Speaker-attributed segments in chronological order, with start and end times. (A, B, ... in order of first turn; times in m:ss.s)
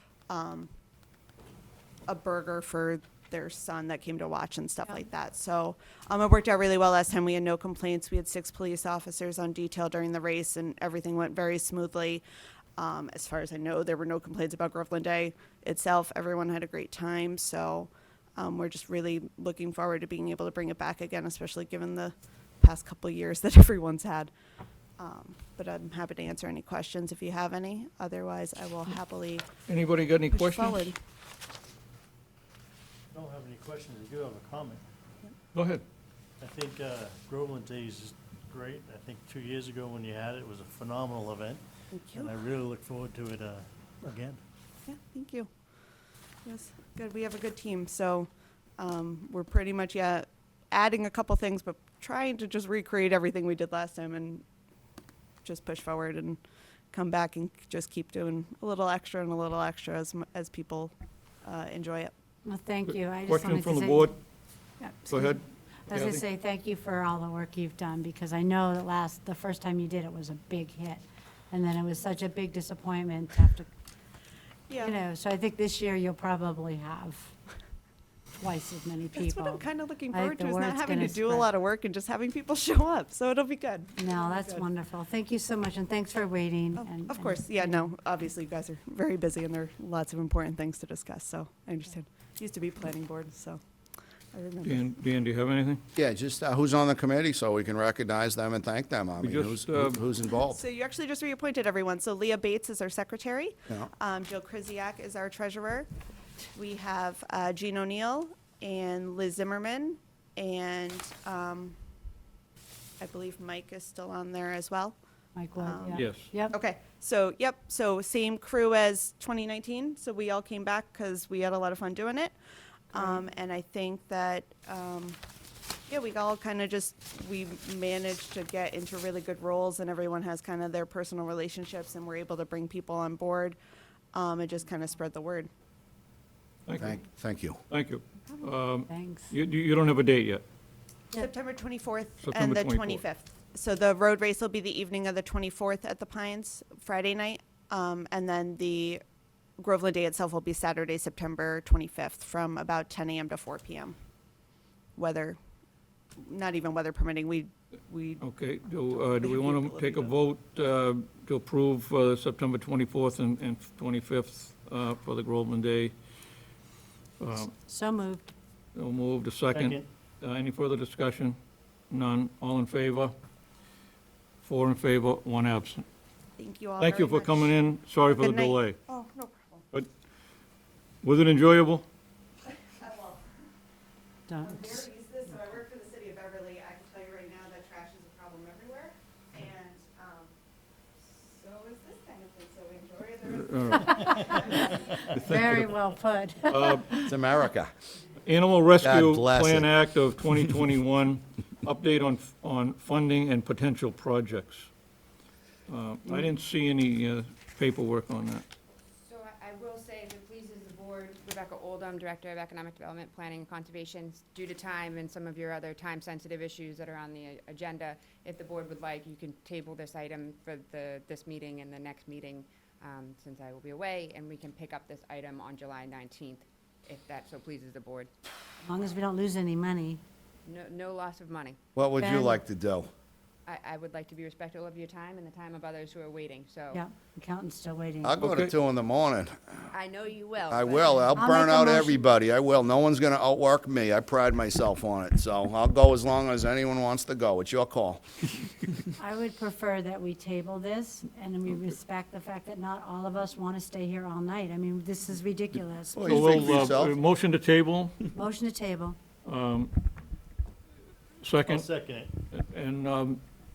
0:00.3-0:00.7 A
0:02.1-0:12.2 A
0:12.8-0:24.3 A
0:25.0-0:29.4 A
0:29.7-0:30.9 B
0:30.3-0:31.0 A
0:33.1-0:34.8 C
0:35.5-0:35.8 B
0:36.4-0:41.6 C
0:41.9-0:42.3 A
0:42.1-0:44.4 C
0:44.8-0:45.5 A
0:46.4-0:54.4 A
0:55.4-0:56.4 A
0:56.9-1:00.9 A
1:01.4-1:02.1 A
1:02.4-1:04.2 D
1:03.2-1:04.1 B
1:04.8-1:13.7 D
1:05.1-1:05.4 B
1:05.9-1:06.2 B
1:14.7-1:15.0 A
1:14.8-1:17.3 D
1:18.3-1:21.5 D
1:19.2-1:24.6 A
1:24.0-1:27.8 D
1:26.7-1:33.6 A
1:34.3-1:34.9 A
1:34.6-1:35.8 B
1:35.9-1:40.6 E
1:39.2-1:40.0 B
1:40.4-1:45.9 A
1:46.5-1:51.8 A
1:53.0-1:55.0 A
1:55.3-1:56.5 D
1:55.6-2:02.3 A
1:56.0-1:56.3 B
2:02.9-2:05.2 A
2:02.9-2:03.2 D
2:05.9-2:13.6 A
2:14.1-2:15.5 A
2:16.7-2:17.0 B
2:16.8-2:17.6 E
2:17.7-2:20.4 B
2:18.9-2:19.4 D
2:21.1-2:29.0 A
2:22.2-2:23.0 B
2:29.6-2:34.0 A
2:35.0-2:35.4 A
2:36.2-2:38.2 A
2:38.2-2:45.9 B
2:38.8-2:40.1 A
2:47.2-2:47.5 B
2:47.6-2:48.3 D
2:48.7-2:51.4 B
2:49.5-2:49.8 C
2:51.9-2:53.1 B
2:54.4-2:55.8 B
2:56.4-2:59.6 A
2:56.8-2:58.8 B
3:01.0-3:01.8 B
3:02.7-3:03.2 A
3:04.3-3:04.8 D
3:04.4-3:10.3 A
3:11.1-3:15.1 A
3:13.3-3:13.9 B
3:13.8-3:17.1 D
3:15.3-3:15.7 B
3:16.5-3:16.8 B
3:17.0-3:17.7 E
3:18.2-3:24.7 B
3:18.8-3:19.7 E
3:25.7-3:28.4 B
3:29.0-3:48.1 F
3:48.6-3:50.0 D
3:50.4-3:51.6 F
3:51.7-3:52.9 E
3:52.0-3:52.4 D
3:53.4-3:56.8 F
3:56.7-3:58.2 D
3:58.0-3:59.5 E
3:58.2-3:58.5 B
3:59.7-4:01.2 F
4:00.5-4:08.0 E
4:01.2-4:02.0 D
4:09.0-4:16.4 D
4:15.9-4:16.9 E
4:16.0-4:18.0 B
4:18.1-4:19.0 D
4:19.2-4:19.7 B
4:21.2-4:21.6 B
4:21.4-4:22.1 C
4:22.3-4:23.2 B